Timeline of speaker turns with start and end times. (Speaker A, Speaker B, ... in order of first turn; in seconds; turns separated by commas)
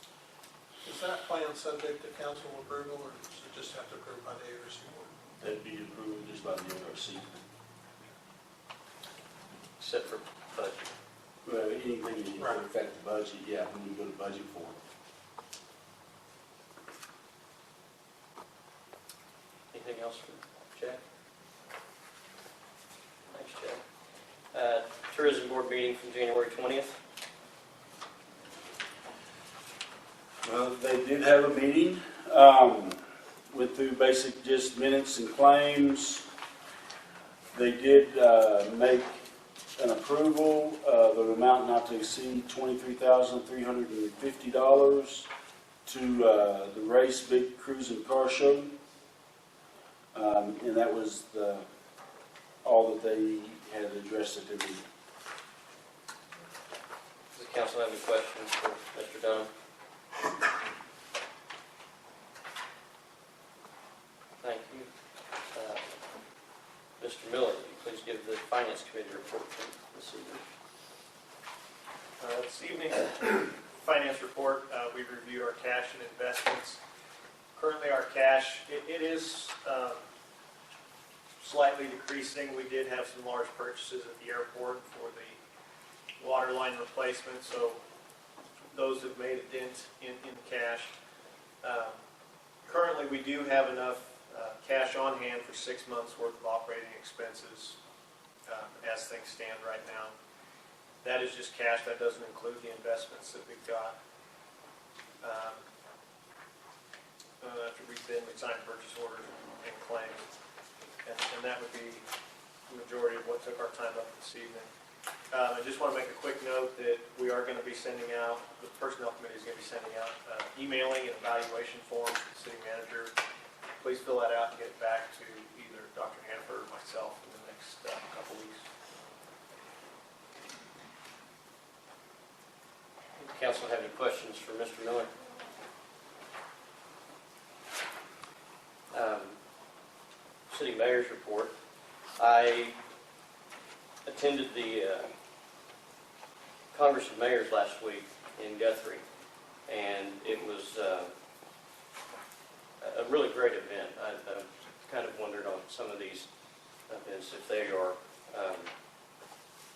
Speaker A: 0.8-5.1, Speaker B: 5.4-7.4, Speaker C: 9.8-10.9, Speaker B: 11.4-14.8, Speaker C: 19.7-21.0, Speaker C: 23.3-23.8, Speaker C: 24.5-26.9, Speaker B: 30.4-33.0, Speaker B: 33.5-36.2, Speaker B: 37.5-39.2, Speaker B: 39.8-45.3, Speaker B: 45.8-48.7, Speaker B: 50.1-51.6, Speaker B: 52.6-54.8, Speaker C: 57.3-59.5, Speaker C: 64.4-64.9, Speaker C: 65.5-65.8, Speaker C: 67.0-70.5, Speaker D: 72.2-76.8, Speaker D: 77.5-80.0, Speaker D: 81.4-85.4, Speaker D: 86.2-87.8, Speaker D: 88.7-90.9, Speaker D: 91.6-92.0, Speaker D: 92.6-97.8, Speaker D: 98.5-100.1, Speaker D: 101.0-104.0, Speaker D: 105.2-105.6, Speaker D: 107.4-110.2, Speaker D: 111.0-112.0, Speaker D: 112.7-114.7, Speaker D: 115.3-123.1, Speaker D: 123.8-128.6, Speaker C: 133.2-135.1, Speaker C: 138.9-139.3, Speaker C: 140.5-141.5, Speaker C: 142.2-142.8, Speaker C: 144.0-145.1, Speaker C: 146.7-149.0, Speaker C: 149.7-151.1, Speaker C: 152.8-156.3, Speaker C: 156.9-158.7